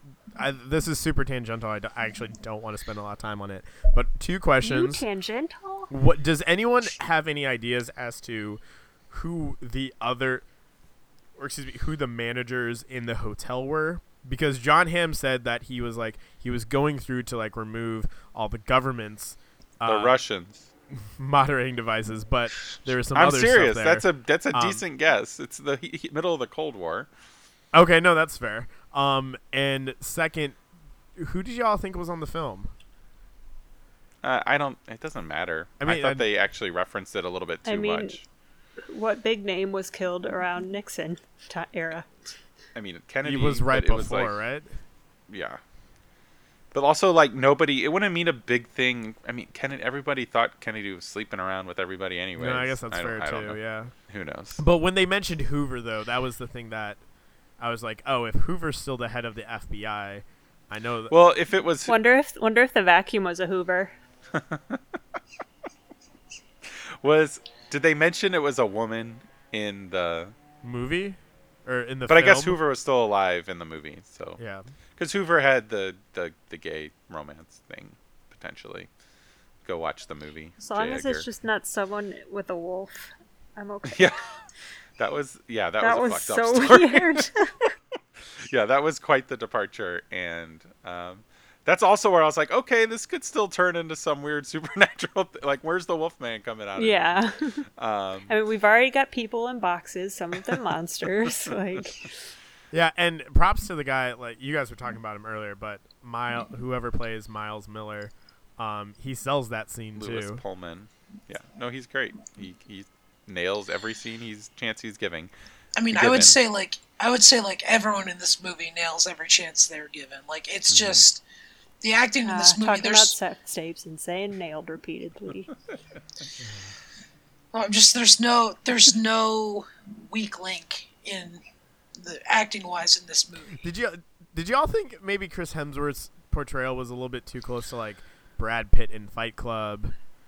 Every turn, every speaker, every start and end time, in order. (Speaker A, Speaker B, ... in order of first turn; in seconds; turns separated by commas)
Speaker A: 0.3-5.0, Speaker B: 4.6-5.9, Speaker A: 5.9-10.4, Speaker A: 11.4-20.2, Speaker C: 19.8-20.7, Speaker A: 21.1-24.8, Speaker C: 23.1-27.1, Speaker A: 27.7-30.6, Speaker A: 31.1-32.7, Speaker C: 34.2-38.2, Speaker A: 35.8-36.3, Speaker B: 37.6-38.2, Speaker B: 38.9-42.2, Speaker C: 42.7-44.3, Speaker A: 43.2-44.8, Speaker C: 45.3-45.6, Speaker C: 46.7-54.6, Speaker A: 52.4-53.9, Speaker A: 54.6-57.0, Speaker A: 57.6-61.2, Speaker C: 61.1-61.9, Speaker B: 61.9-63.9, Speaker C: 64.3-65.0, Speaker C: 66.6-70.3, Speaker A: 70.6-72.6, Speaker C: 72.1-74.4, Speaker A: 74.4-74.7, Speaker C: 75.0-78.9, Speaker C: 79.6-81.3, Speaker B: 80.6-84.1, Speaker C: 83.8-84.2, Speaker C: 85.0-87.3, Speaker B: 85.8-87.7, Speaker C: 88.4-97.2, Speaker B: 96.8-97.6, Speaker C: 97.8-98.3, Speaker B: 98.3-102.3, Speaker C: 101.3-101.8, Speaker A: 102.7-110.4, Speaker C: 110.0-115.3, Speaker D: 115.8-121.2, Speaker C: 115.9-116.4, Speaker C: 120.7-121.0, Speaker D: 121.8-123.1, Speaker B: 122.2-125.5, Speaker A: 126.4-126.7, Speaker D: 127.5-131.4, Speaker D: 132.0-133.6, Speaker A: 133.6-139.9